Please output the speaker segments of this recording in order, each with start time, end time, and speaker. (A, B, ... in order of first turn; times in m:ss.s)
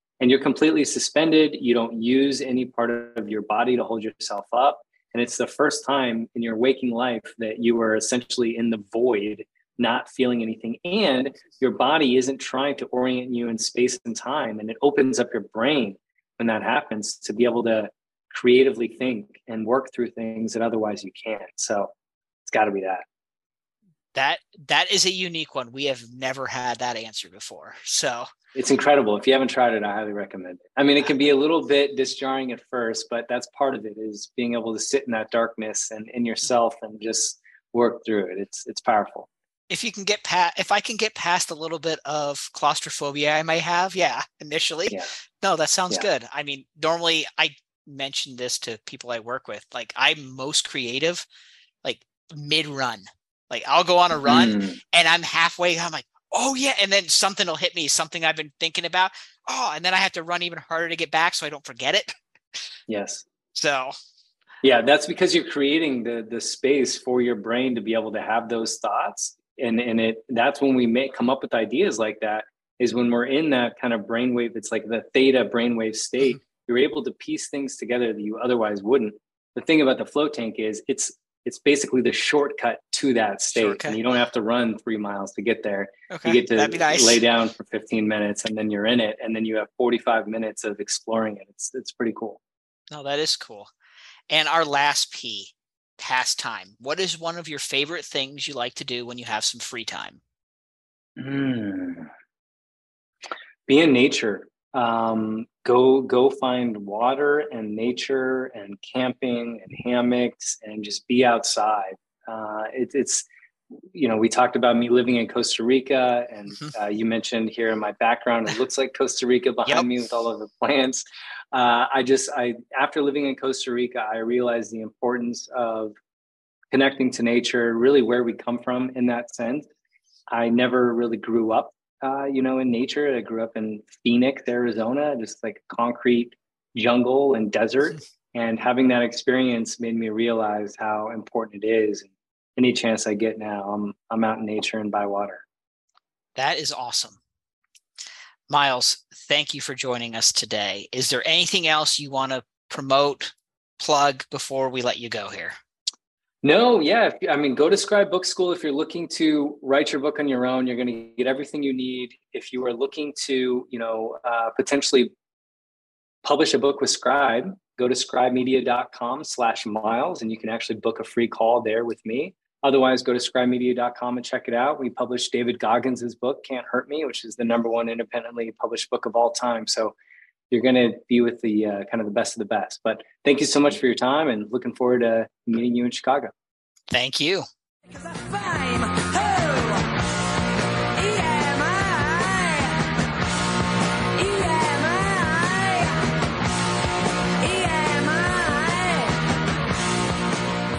0:00.2-0:21.9 A
0:22.5-0:23.0 A
0:24.2-0:28.3 B
0:28.6-0:39.3 A
0:39.7-0:51.2 B
0:51.8-1:02.2 B
0:54.2-0:54.8 A
1:02.9-1:03.2 A
1:03.6-1:03.9 B
1:04.6-1:32.4 A
1:23.5-1:24.0 B
1:26.1-1:27.2 B
1:32.9-1:33.7 B
1:34.3-1:40.2 B
1:41.2-1:42.1 A
1:43.7-1:53.3 A
1:53.9-2:06.0 A
2:06.7-2:09.7 A
2:10.3-2:25.4 A
2:26.4-2:27.2 B
2:28.5-2:35.6 B
2:36.4-2:45.1 A
2:46.2-2:59.9 A
3:00.5-3:06.3 A
3:06.9-3:07.5 B
3:08.0-3:09.8 B
3:11.1-3:12.8 B
3:14.3-3:15.9 B
3:17.5-3:18.9 B